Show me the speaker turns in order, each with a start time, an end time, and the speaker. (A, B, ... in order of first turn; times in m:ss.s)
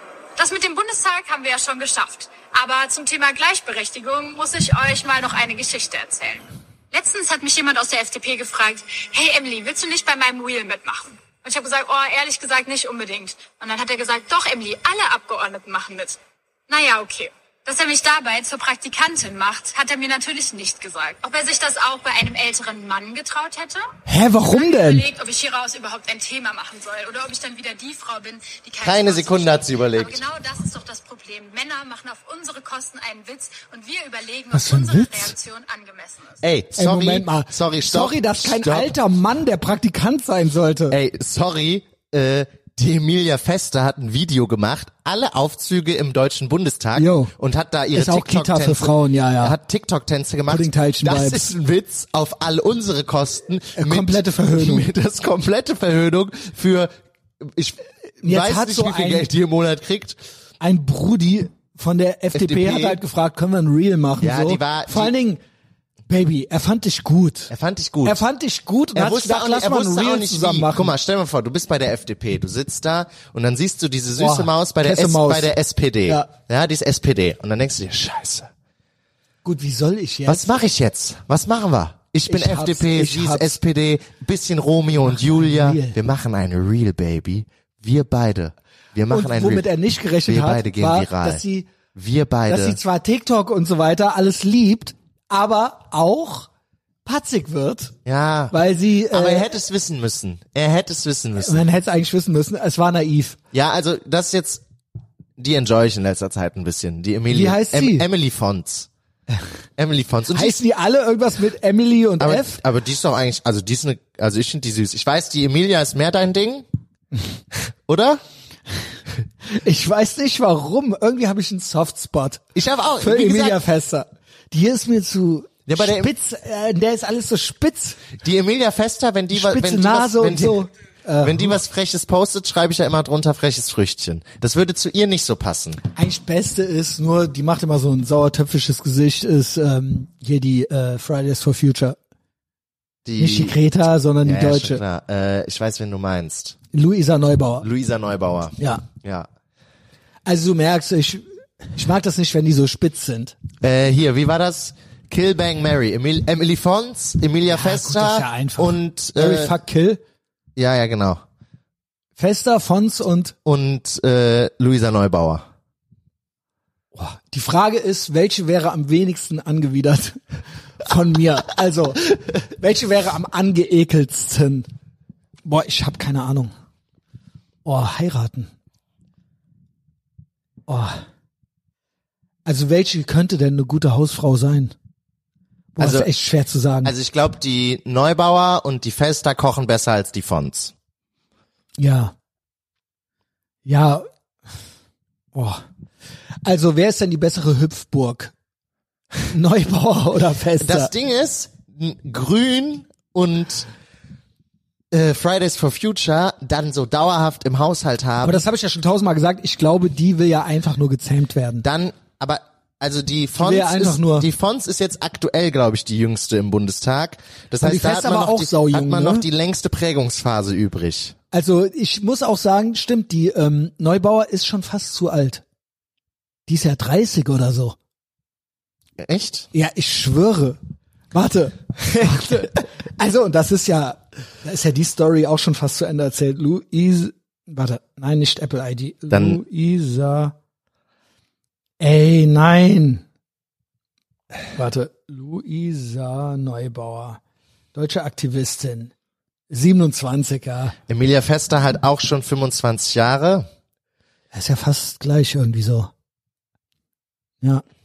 0:00.4-0:23.9 A
0:24.1-0:25.0 B
0:24.5-0:36.4 A
0:28.8-0:30.2 C
0:34.5-0:35.4 B
0:36.4-0:38.9 C
0:36.8-0:41.0 B
0:40.9-1:00.2 C
0:46.9-0:47.3 B
0:47.9-0:49.6 B
0:50.5-0:51.4 B
0:53.8-0:54.9 B
0:58.2-0:59.3 B
1:00.6-1:05.4 B
1:02.3-1:03.0 C
1:04.2-1:05.1 C
1:06.1-1:07.5 B
1:07.5-1:08.2 C
1:08.0-1:10.9 B
1:08.9-1:18.5 C
1:14.2-1:15.6 B
1:19.4-1:20.6 B
1:20.3-1:29.7 C
1:22.3-1:23.6 B
1:25.1-1:26.0 B
1:29.1-1:31.7 B
1:30.3-1:31.4 C
1:31.9-1:32.8 C
1:32.5-1:36.5 B
1:37.0-1:37.9 B
1:38.0-1:38.5 C
1:38.5-1:39.6 B
1:39.1-1:41.6 C
1:41.4-1:43.4 B
1:43.5-1:44.6 C
1:45.4-1:48.9 C
1:47.3-1:48.1 B
1:49.8-1:50.6 C
1:50.3-1:52.6 B
1:52.2-1:56.6 C
1:57.5-1:58.2 C
1:59.5-2:02.4 B
2:02.6-2:03.6 C
2:03.0-2:08.1 B
2:05.7-2:06.1 C
2:08.2-2:10.6 C
2:09.3-2:11.6 B
2:11.2-2:15.8 C
2:15.9-2:22.0 B
2:23.0-2:23.6 C
2:23.2-2:24.8 B
2:24.2-2:26.6 C
2:26.7-2:27.6 B
2:27.6-2:29.3 C
2:28.6-2:28.8 B
2:30.3-2:33.3 B
2:33.6-2:39.5 C
2:37.5-2:40.0 B
2:40.6-2:41.2 C
2:42.2-2:43.4 B
2:43.4-2:45.4 C
2:46.9-2:50.2 B
2:50.8-2:54.7 B
2:55.4-2:56.5 B
2:57.6-2:58.5 B
3:00.7-3:01.0 B
3:02.4-3:04.7 B
3:05.8-3:06.9 B
3:05.8-3:06.1 C
3:06.8-3:10.7 C
3:11.8-3:12.1 B
3:13.6-3:14.1 B
3:15.4-3:15.6 B
3:16.4-3:18.3 B
3:19.2-3:20.9 B
3:20.6-3:23.6 C
3:24.9-3:28.4 C
3:28.2-3:31.6 B
3:31.6-3:41.1 C
3:33.4-3:34.3 B
3:37.6-3:39.3 B
3:41.3-3:45.4 B
3:46.5-3:47.8 B
3:49.0-3:49.5 C
3:49.5-3:50.6 B
3:51.1-4:00.3 B
3:59.1-3:59.4 C
4:01.8-4:03.0 B
4:04.5-4:07.2 B
4:07.7-4:08.9 B
4:09.5-4:10.7 B
4:10.9-4:13.5 C
4:14.3-4:15.9 B